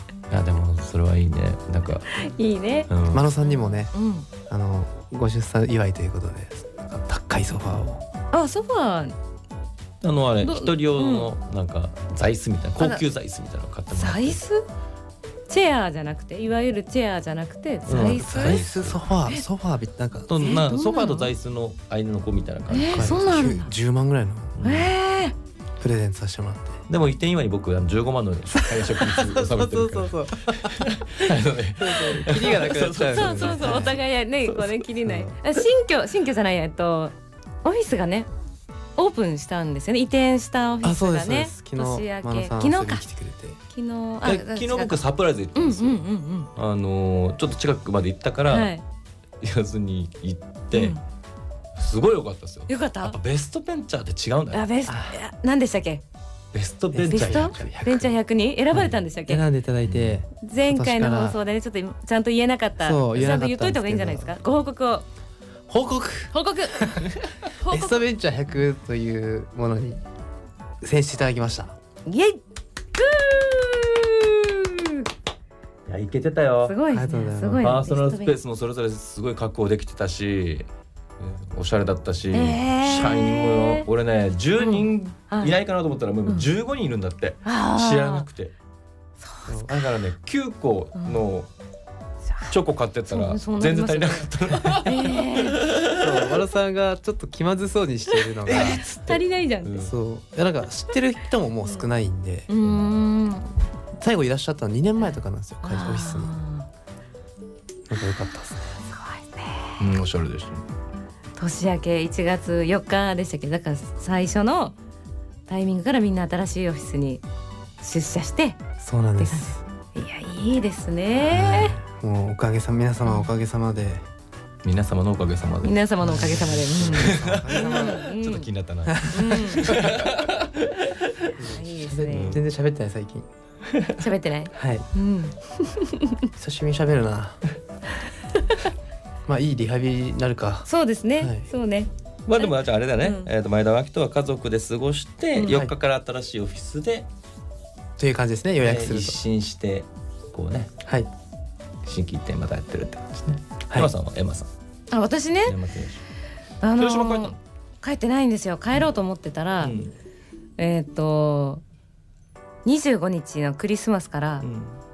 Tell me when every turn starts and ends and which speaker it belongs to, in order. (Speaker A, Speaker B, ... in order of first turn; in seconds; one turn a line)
Speaker A: 0.3-2.1
Speaker B: 2.2-2.9
Speaker A: 2.9-3.2
Speaker C: 3.1-3.9
Speaker B: 3.4-4.3
Speaker C: 4.5-8.0
Speaker B: 8.3-9.1
Speaker A: 10.0-14.4
Speaker B: 10.4-11.3
Speaker B: 12.8-13.0
Speaker B: 13.9-14.7
Speaker B: 15.5-18.6
Speaker A: 17.9-19.0
Speaker C: 17.9-20.3
Speaker A: 20.3-23.2
Speaker B: 20.4-21.3
Speaker B: 22.7-23.7
Speaker C: 22.9-24.7
Speaker A: 24.6-24.9
Speaker B: 24.6-25.3
Speaker C: 25.8-26.8
Speaker A: 26.9-34.9
Speaker C: 28.5-34.0
Speaker B: 33.1-38.3
Speaker C: 35.0-35.3
Speaker B: 39.0-43.0
Speaker C: 40.8-43.6
Speaker B: 43.7-45.0
Speaker A: 44.2-46.0
Speaker B: 45.5-46.5
Speaker A: 46.5-48.7
Speaker B: 48.5-48.8
Speaker A: 49.4-51.0
Speaker B: 50.7-51.0
Speaker A: 51.8-54.6
Speaker B: 52.7-53.2
Speaker B: 54.5-56.0
Speaker C: 54.9-55.1
Speaker A: 56.5-57.6
Speaker C: 56.9-58.1
Speaker B: 57.1-59.4
Speaker C: 58.7-61.4
Speaker A: 59.8-60.2
Speaker B: 60.4-65.0
Speaker C: 62.8-64.3
Speaker C: 65.7-70.0
Speaker B: 66.3-68.1
Speaker C: 70.8-71.8
Speaker B: 72.0-72.4
Speaker B: 73.0-75.0
Speaker A: 75.9-76.8
Speaker B: 76.6-78.3
Speaker C: 76.9-77.8
Speaker A: 77.6-80.7
Speaker A: 81.2-88.5
Speaker B: 82.3-83.8
Speaker B: 84.6-85.5
Speaker B: 87.4-88.2
Speaker B: 89.2-89.5
Speaker A: 89.6-91.5
Speaker B: 91.0-91.2
Speaker A: 92.5-96.1
Speaker B: 93.1-95.7
Speaker C: 95.9-98.8
Speaker B: 98.4-99.9
Speaker A: 98.5-99.9
Speaker C: 99.8-102.7
Speaker B: 102.5-103.5
Speaker C: 104.0-106.3
Speaker B: 105.0-106.7
Speaker C: 107.9-108.8
Speaker B: 108.9-109.8
Speaker A: 109.8-110.6
Speaker B: 111.3-114.8
Speaker B: 115.5-117.2
Speaker B: 117.8-118.6
Speaker C: 118.8-119.6
Speaker B: 119.2-121.7
Speaker C: 121.2-124.0
Speaker A: 124.6-125.8
Speaker B: 125.6-128.5
Speaker C: 126.0-128.1
Speaker A: 126.8-131.3
Speaker C: 128.9-130.1
Speaker B: 129.0-129.8
Speaker C: 131.4-133.3
Speaker B: 131.4-132.4
Speaker A: 132.1-132.4
Speaker A: 133.7-134.0
Speaker B: 134.0-136.2
Speaker C: 134.5-134.9
Speaker C: 136.3-137.4
Speaker C: 139.2-141.5
Speaker B: 140.7-143.3
Speaker A: 142.2-147.1
Speaker C: 145.4-145.7
Speaker C: 148.0-149.2
Speaker A: 148.6-150.7
Speaker A: 151.8-154.5
Speaker B: 154.9-155.6
Speaker A: 155.4-156.0
Speaker B: 156.6-159.7
Speaker A: 156.8-157.4
Speaker A: 159.6-159.9
Speaker B: 160.6-161.6
Speaker B: 162.6-164.4
Speaker A: 164.4-164.8